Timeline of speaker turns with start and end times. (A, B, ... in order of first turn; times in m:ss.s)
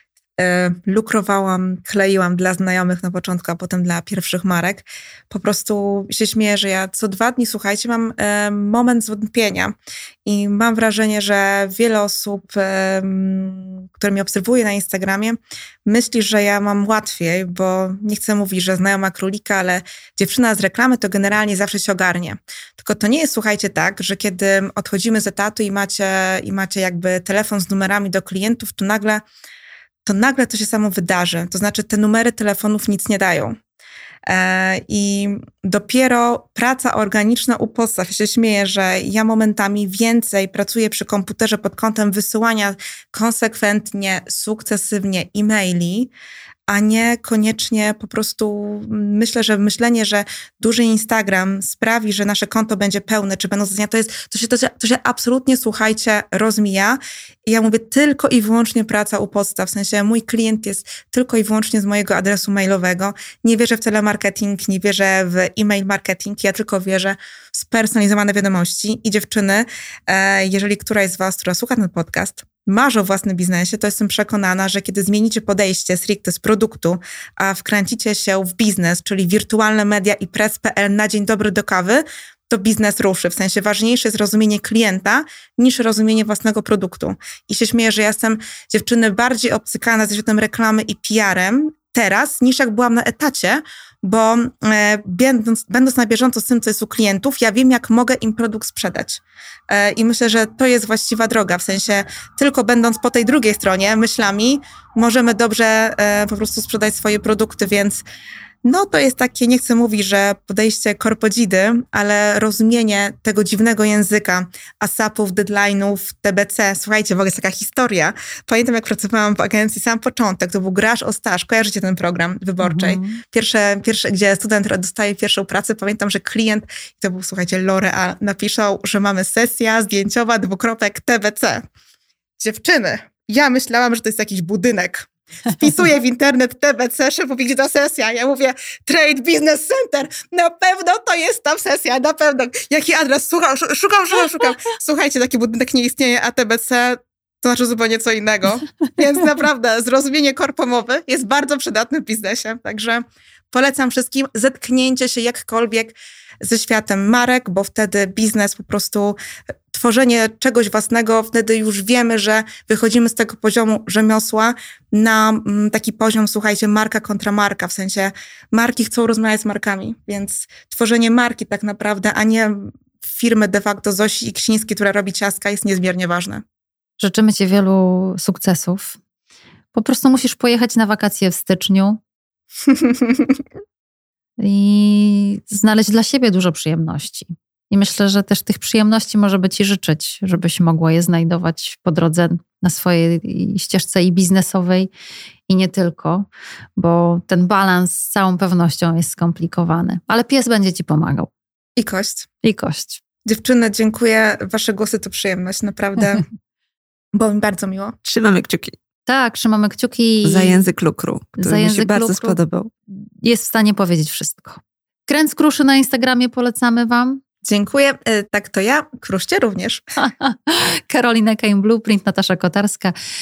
0:00.4-0:29.2 A
0:30.0-0:33.6 A
0:34.3-0:46.1 A
0:46.7-1:48.0 A
1:48.6-2:11.6 A
2:02.6-2:03.2 B
2:12.4-2:39.2 A
2:39.7-2:56.4 A
2:57.0-2:59.0 B
2:59.7-3:02.0 B
3:02.7-3:03.3 A
3:04.4-3:14.9 B
3:15.5-3:16.2 B
3:16.8-3:21.3 B
3:21.8-3:22.3 A
3:22.4-3:23.0 B
3:23.2-3:26.2 A
3:27.1-3:27.9 A
3:28.0-3:28.7 C
3:29.1-3:30.7 B
3:30.2-3:32.7 C
3:31.4-3:32.4 B
3:32.9-3:37.2 B
3:37.4-3:39.8 A
3:40.0-3:42.9 B